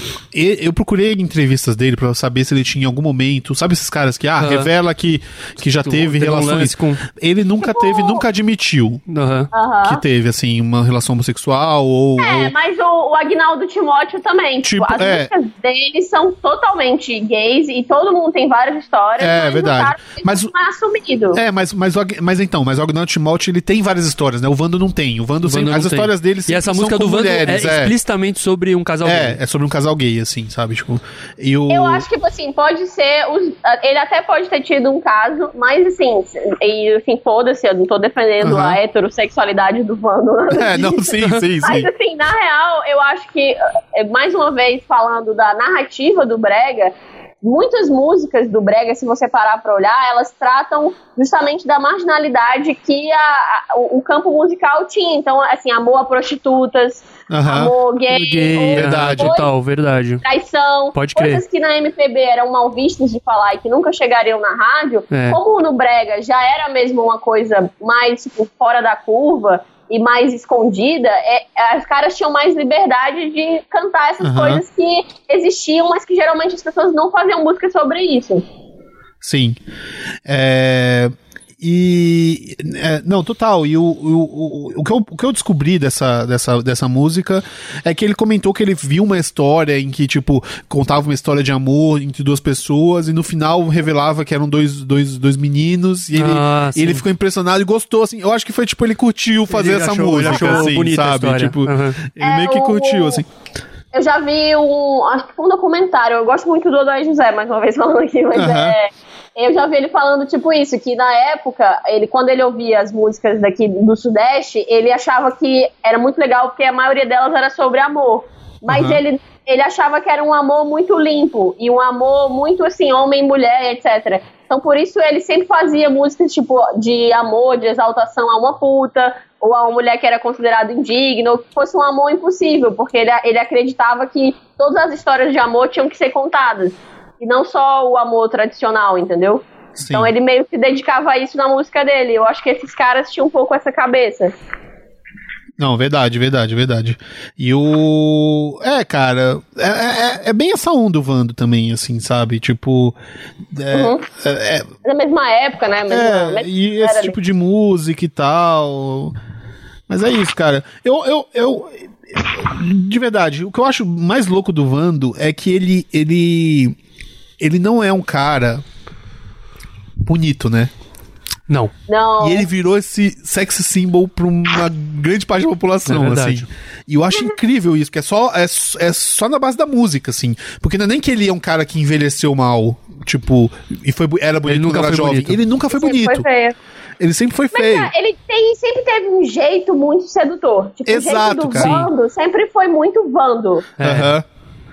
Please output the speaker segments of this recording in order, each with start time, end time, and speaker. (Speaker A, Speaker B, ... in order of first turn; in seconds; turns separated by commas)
Speaker A: 0.3-9.0, Speaker B: 4.4-4.7, Speaker B: 5.8-7.0, Speaker C: 7.6-8.2, Speaker B: 9.1-9.5, Speaker C: 9.5-10.0, Speaker A: 9.8-12.6, Speaker C: 12.2-21.4, Speaker A: 14.6-15.3, Speaker A: 19.2-20.5, Speaker A: 21.3-27.9, Speaker B: 25.4-29.4, Speaker A: 29.0-32.1, Speaker C: 31.7-41.1, Speaker A: 38.4-38.8, Speaker A: 40.5-41.9, Speaker C: 41.6-59.5, Speaker A: 57.3-57.7, Speaker B: 58.1-60.2, Speaker A: 58.8-59.4, Speaker C: 60.2-78.5, Speaker B: 60.9-61.4, Speaker B: 65.1-65.4, Speaker A: 74.2-74.6, Speaker A: 79.2-79.6, Speaker A: 80.3-103.3, Speaker B: 96.1-97.0, Speaker B: 99.5-102.0, Speaker C: 100.3-100.6, Speaker C: 102.2-103.2, Speaker C: 103.9-144.3, Speaker A: 108.3-108.8, Speaker A: 118.7-119.0, Speaker A: 139.8-140.1, Speaker A: 145.6-153.0, Speaker A: 153.5-154.7, Speaker C: 153.7-154.0, Speaker C: 154.8-157.2, Speaker A: 155.9-159.2, Speaker A: 159.9-166.8, Speaker A: 167.4-168.6, Speaker A: 170.0-170.7, Speaker C: 171.9-172.5, Speaker A: 172.2-186.3, Speaker B: 175.9-176.5, Speaker B: 184.5-185.4, Speaker C: 185.7-186.6, Speaker A: 187.0-187.9, Speaker C: 187.5-193.7, Speaker A: 190.9-191.8, Speaker B: 191.6-191.9, Speaker B: 193.8-194.1, Speaker A: 193.8-194.2